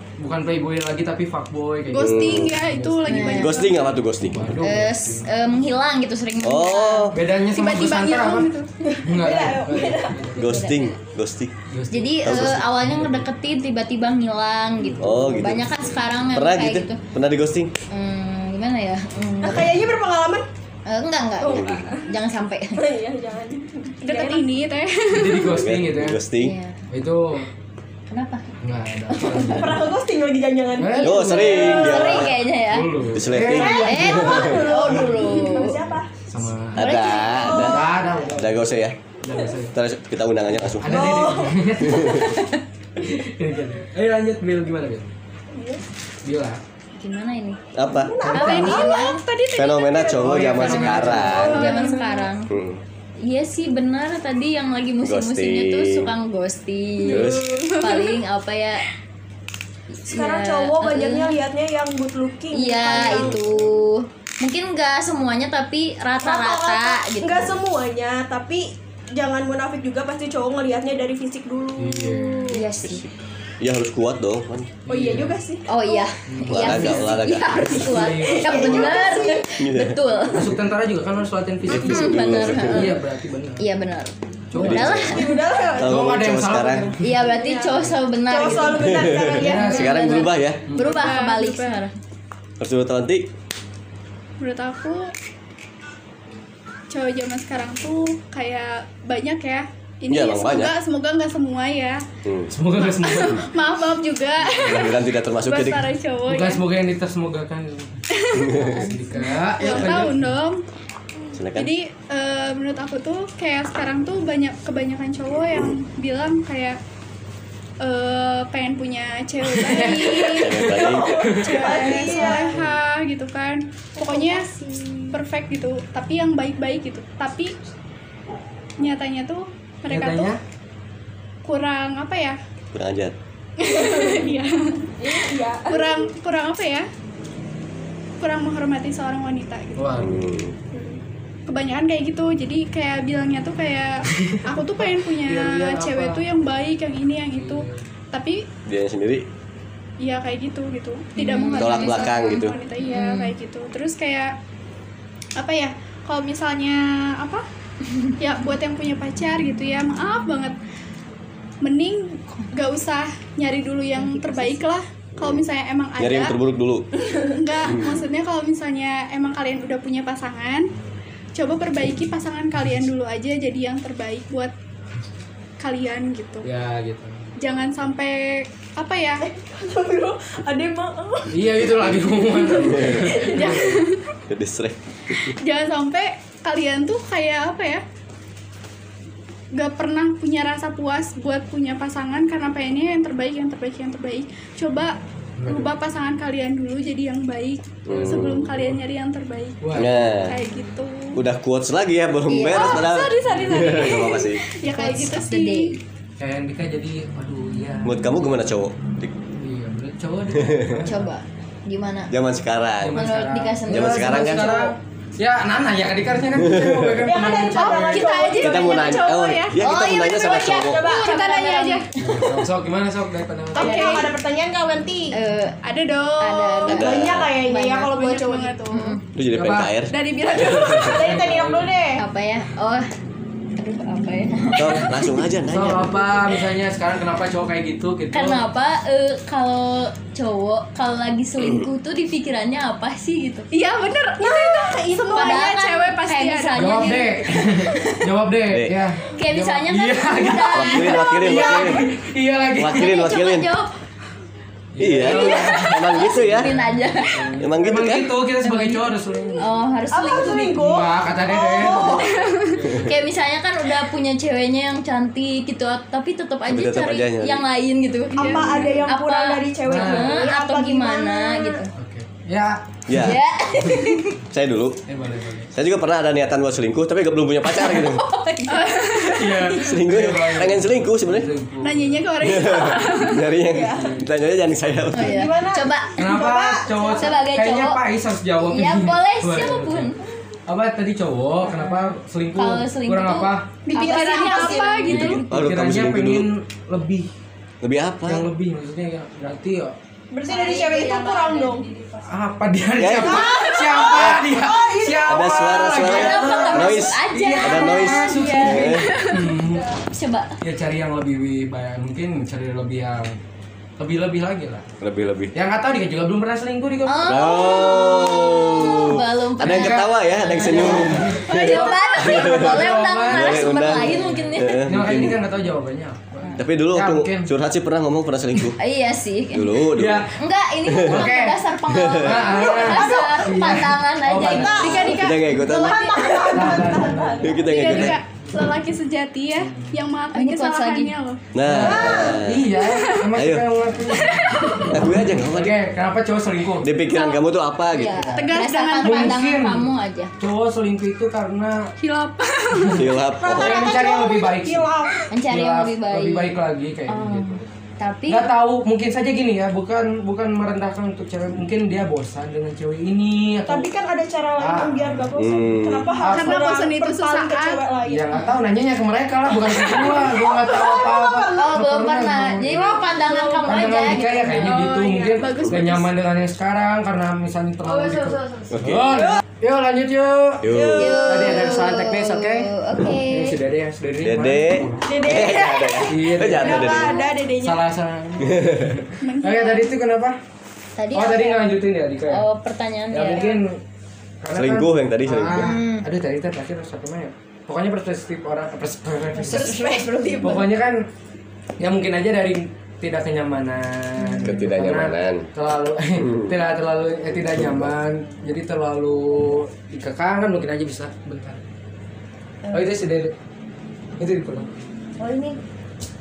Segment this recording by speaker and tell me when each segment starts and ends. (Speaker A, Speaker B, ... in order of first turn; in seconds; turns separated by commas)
Speaker A: 0.2-3.3, Speaker B: 1.9-3.9, Speaker C: 2.0-2.5, Speaker D: 3.1-3.6, Speaker C: 3.2-4.5, Speaker A: 4.2-5.4, Speaker D: 4.6-7.1, Speaker C: 6.4-7.1, Speaker A: 7.1-8.5, Speaker B: 7.5-8.7, Speaker E: 8.9-10.3, Speaker A: 9.0-10.7, Speaker D: 10.3-11.0, Speaker C: 10.3-11.5, Speaker A: 11.7-13.3, Speaker D: 11.9-17.0, Speaker C: 12.2-12.6, Speaker A: 14.8-16.1, Speaker C: 15.0-15.6, Speaker C: 16.3-17.7, Speaker D: 17.9-19.8, Speaker A: 19.2-19.8, Speaker E: 19.4-20.4, Speaker D: 20.9-22.8, Speaker E: 21.4-22.1, Speaker C: 21.5-21.9, Speaker E: 22.7-24.5, Speaker B: 24.0-25.5, Speaker A: 25.1-26.2, Speaker C: 25.5-26.6, Speaker D: 26.4-26.8, Speaker A: 26.9-27.5, Speaker D: 28.1-28.4, Speaker A: 28.6-29.9, Speaker D: 29.1-29.6, Speaker E: 29.5-32.1, Speaker A: 30.8-33.9, Speaker C: 31.0-32.4, Speaker D: 31.1-33.0, Speaker C: 33.1-34.6, Speaker E: 33.4-36.1, Speaker D: 33.6-35.8, Speaker A: 36.3-36.9, Speaker C: 36.8-39.0, Speaker E: 36.8-37.9, Speaker D: 36.8-37.6, Speaker A: 37.5-38.7, Speaker A: 39.2-39.7, Speaker C: 39.7-42.2, Speaker A: 40.6-42.4, Speaker E: 40.8-41.6, Speaker D: 41.9-42.6, Speaker A: 43.0-45.0, Speaker E: 45.5-45.8, Speaker A: 46.2-46.6, Speaker D: 47.0-47.6, Speaker C: 47.7-48.1, Speaker E: 48.0-49.1, Speaker A: 48.2-48.8, Speaker D: 48.3-49.2, Speaker B: 48.3-52.3, Speaker C: 49.5-51.7, Speaker A: 50.2-51.5, Speaker E: 51.1-52.1, Speaker D: 51.5-52.5, Speaker C: 52.5-52.8, Speaker D: 53.2-58.8, Speaker C: 55.0-56.1, Speaker E: 57.0-57.7, Speaker C: 57.1-57.5, Speaker B: 57.5-58.2, Speaker D: 59.9-61.4, Speaker E: 60.1-63.4, Speaker D: 62.5-67.5, Speaker E: 66.2-72.4, Speaker A: 71.8-72.5, Speaker D: 72.5-73.0, Speaker C: 72.8-74.7, Speaker A: 74.8-75.4, Speaker E: 74.9-76.1, Speaker D: 75.7-80.5, Speaker A: 76.3-79.1, Speaker C: 76.5-77.9, Speaker E: 78.4-79.5, Speaker C: 79.5-80.0, Speaker A: 80.3-83.7, Speaker C: 81.7-82.9, Speaker D: 81.7-83.0, Speaker D: 83.6-85.3, Speaker A: 84.5-87.3, Speaker C: 84.5-85.2, Speaker E: 85.1-86.0, Speaker C: 85.8-86.9, Speaker D: 87.0-91.9, Speaker E: 87.4-90.1, Speaker C: 88.7-90.7, Speaker A: 89.4-90.0, Speaker A: 90.7-91.1, Speaker B: 90.8-91.8, Speaker C: 92.6-93.3, Speaker B: 94.4-95.1, Speaker B: 96.9-102.0, Speaker C: 100.1-100.7, Speaker C: 102.2-102.5, Speaker A: 102.5-103.5, Speaker B: 102.8-106.6, Speaker C: 104.5-105.9, Speaker A: 106.3-108.0, Speaker B: 108.1-110.6, Speaker C: 108.3-108.9, Speaker A: 108.5-110.3, Speaker C: 111.3-111.7, Speaker B: 111.5-116.8, Speaker C: 115.5-115.8, Speaker B: 117.8-120.7, Speaker A: 119.4-121.8, Speaker C: 120.4-121.2, Speaker E: 120.7-122.5, Speaker B: 121.2-124.5, Speaker D: 121.9-122.4, Speaker E: 124.0-125.1, Speaker B: 125.1-127.5, Speaker B: 128.8-130.3, Speaker A: 129.9-130.4, Speaker B: 131.4-132.4, Speaker C: 132.7-133.1, Speaker B: 133.6-136.9, Speaker E: 133.6-134.3, Speaker E: 135.0-136.0, Speaker B: 138.2-140.2, Speaker A: 139.8-140.2, Speaker C: 140.0-140.5, Speaker E: 140.7-141.0, Speaker B: 141.5-148.4, Speaker A: 144.1-146.2, Speaker A: 147.3-147.8, Speaker C: 148.7-149.2, Speaker B: 150.0-154.3, Speaker D: 151.2-153.3, Speaker C: 151.6-152.6, Speaker B: 155.4-157.4, Speaker B: 158.2-160.6, Speaker B: 161.6-166.3, Speaker D: 164.0-164.6, Speaker C: 165.2-165.4, Speaker C: 166.0-166.9, Speaker B: 167.1-170.7, Speaker C: 167.7-168.0, Speaker B: 171.3-174.5, Speaker B: 175.6-176.5, Speaker A: 176.4-177.3, Speaker B: 177.4-179.2, Speaker E: 179.2-181.4, Speaker A: 181.3-183.6, Speaker E: 182.4-183.7, Speaker C: 182.6-183.1, Speaker B: 183.3-184.1, Speaker C: 184.3-185.4, Speaker B: 185.4-187.8, Speaker B: 189.5-201.2, Speaker A: 195.4-195.7, Speaker C: 197.9-198.5, Speaker A: 197.9-198.7, Speaker A: 199.6-200.1, Speaker C: 199.8-200.4, Speaker C: 201.1-204.4, Speaker D: 202.2-202.9, Speaker B: 202.5-205.7, Speaker A: 203.2-203.7, Speaker D: 204.6-205.8, Speaker A: 206.2-208.3, Speaker C: 207.8-209.1, Speaker A: 209.4-211.1, Speaker C: 210.4-210.8, Speaker D: 210.8-212.1, Speaker C: 212.1-213.0, Speaker A: 212.8-218.3, Speaker D: 212.9-214.7, Speaker C: 213.7-214.7, Speaker C: 216.4-217.0, Speaker E: 217.0-221.1, Speaker B: 217.5-219.7, Speaker D: 218.1-218.3, Speaker C: 218.4-220.9, Speaker D: 219.6-222.4, Speaker B: 220.8-221.9, Speaker A: 222.0-223.9, Speaker E: 223.5-225.2, Speaker D: 223.6-224.0, Speaker B: 223.6-224.1, Speaker D: 225.1-225.6, Speaker B: 225.6-226.8, Speaker D: 226.2-227.9, Speaker E: 226.7-228.5, Speaker C: 226.7-227.3, Speaker B: 227.8-229.0, Speaker D: 228.7-229.0, Speaker C: 229.1-230.9, Speaker A: 229.3-229.8, Speaker B: 229.9-231.2, Speaker E: 230.4-232.0, Speaker A: 230.9-231.7, Speaker D: 232.0-232.9, Speaker D: 233.6-235.2, Speaker C: 234.5-236.0, Speaker A: 235.5-238.4, Speaker D: 238.1-243.5, Speaker C: 241.4-241.7, Speaker B: 243.5-247.0, Speaker E: 244.2-245.5, Speaker D: 245.1-247.9, Speaker A: 246.5-252.9, Speaker C: 248.5-248.8, Speaker D: 249.1-251.5, Speaker C: 250.5-251.8, Speaker E: 251.2-251.7, Speaker C: 252.6-253.5, Speaker D: 252.7-253.7, Speaker A: 254.7-259.5, Speaker C: 254.8-256.5, Speaker D: 255.0-257.4, Speaker C: 257.4-258.1, Speaker D: 258.4-260.6, Speaker E: 259.9-262.3, Speaker A: 260.6-263.0, Speaker B: 262.0-262.6, Speaker D: 262.8-271.7, Speaker C: 266.5-267.4, Speaker B: 268.1-268.9, Speaker E: 268.1-271.6, Speaker A: 269.6-270.3, Speaker A: 271.8-272.8, Speaker C: 272.9-273.2, Speaker D: 272.9-274.2, Speaker A: 273.6-274.0, Speaker C: 274.3-274.8, Speaker A: 274.9-275.5, Speaker C: 275.5-278.0, Speaker D: 277.5-279.3, Speaker B: 278.5-279.5, Speaker A: 279.1-282.1, Speaker C: 279.6-281.3, Speaker B: 281.6-283.3, Speaker C: 282.2-285.3, Speaker E: 283.5-283.9, Speaker A: 283.7-284.1, Speaker D: 284.9-286.0, Speaker E: 285.0-287.1, Speaker A: 285.9-289.9, Speaker D: 287.0-287.8, Speaker D: 288.5-290.0, Speaker A: 290.5-293.5, Speaker D: 291.4-295.5, Speaker B: 293.6-295.2, Speaker E: 293.8-294.7, Speaker C: 294.9-296.3, Speaker A: 295.3-297.1, Speaker C: 297.6-298.3, Speaker A: 298.1-299.8, Speaker E: 300.1-301.6, Speaker D: 300.2-302.1, Speaker A: 302.0-309.6, Speaker C: 302.8-303.3, Speaker E: 303.0-305.4, Speaker C: 303.9-304.2, Speaker C: 305.1-308.9, Speaker D: 305.8-310.4, Speaker A: 310.4-313.2, Speaker A: 313.8-314.7, Speaker C: 314.8-315.3, Speaker A: 315.3-317.2, Speaker D: 316.9-325.0, Speaker C: 317.0-325.2, Speaker A: 319.4-327.3, Speaker C: 326.4-328.6, Speaker D: 328.6-336.6, Speaker C: 329.3-330.1, Speaker A: 329.7-330.2, Speaker C: 330.7-331.1, Speaker A: 330.8-331.4, Speaker C: 331.7-332.3, Speaker A: 332.0-334.9, Speaker E: 332.4-333.3, Speaker E: 334.2-337.4, Speaker B: 334.6-335.5, Speaker C: 334.6-336.0, Speaker A: 336.3-338.0, Speaker C: 337.2-338.0, Speaker B: 337.4-341.2, Speaker A: 339.4-339.8, Speaker D: 340.1-340.9, Speaker C: 341.3-342.5, Speaker A: 341.4-346.7, Speaker E: 341.6-342.2, Speaker B: 342.6-343.1, Speaker C: 343.1-343.4, Speaker B: 343.9-344.7, Speaker D: 344.4-344.6, Speaker C: 344.7-345.6, Speaker C: 346.6-348.1, Speaker D: 347.7-350.1, Speaker A: 347.9-351.7, Speaker B: 348.1-349.3, Speaker B: 351.8-352.9, Speaker A: 352.6-354.7, Speaker C: 352.8-353.8, Speaker E: 353.2-355.0, Speaker D: 355.1-358.3, Speaker A: 355.3-357.5, Speaker A: 358.1-363.7, Speaker E: 363.5-368.2, Speaker A: 364.4-365.2, Speaker C: 365.2-366.0, Speaker A: 366.0-366.5, Speaker B: 366.0-367.6, Speaker A: 367.9-372.7, Speaker E: 369.4-371.4, Speaker D: 371.4-374.7, Speaker E: 372.6-373.8, Speaker A: 373.4-384.9, Speaker B: 374.4-375.9, Speaker D: 377.6-378.6, Speaker C: 378.5-379.0, Speaker E: 378.9-379.2, Speaker C: 380.4-381.0, Speaker E: 380.4-381.5, Speaker D: 380.8-383.4, Speaker C: 384.0-387.0, Speaker E: 384.8-387.6, Speaker A: 385.9-390.2, Speaker D: 386.6-387.0, Speaker C: 388.3-388.7, Speaker B: 389.0-389.7, Speaker D: 390.8-393.3, Speaker A: 390.9-392.2, Speaker A: 392.9-393.6, Speaker A: 394.2-400.8, Speaker C: 394.4-395.6, Speaker D: 395.3-395.9, Speaker D: 399.1-400.5, Speaker A: 401.6-411.4, Speaker D: 404.0-404.3, Speaker C: 404.2-405.3, Speaker C: 406.0-406.3, Speaker D: 412.4-412.8, Speaker A: 412.5-413.1, Speaker A: 414.0-414.5, Speaker D: 415.0-415.4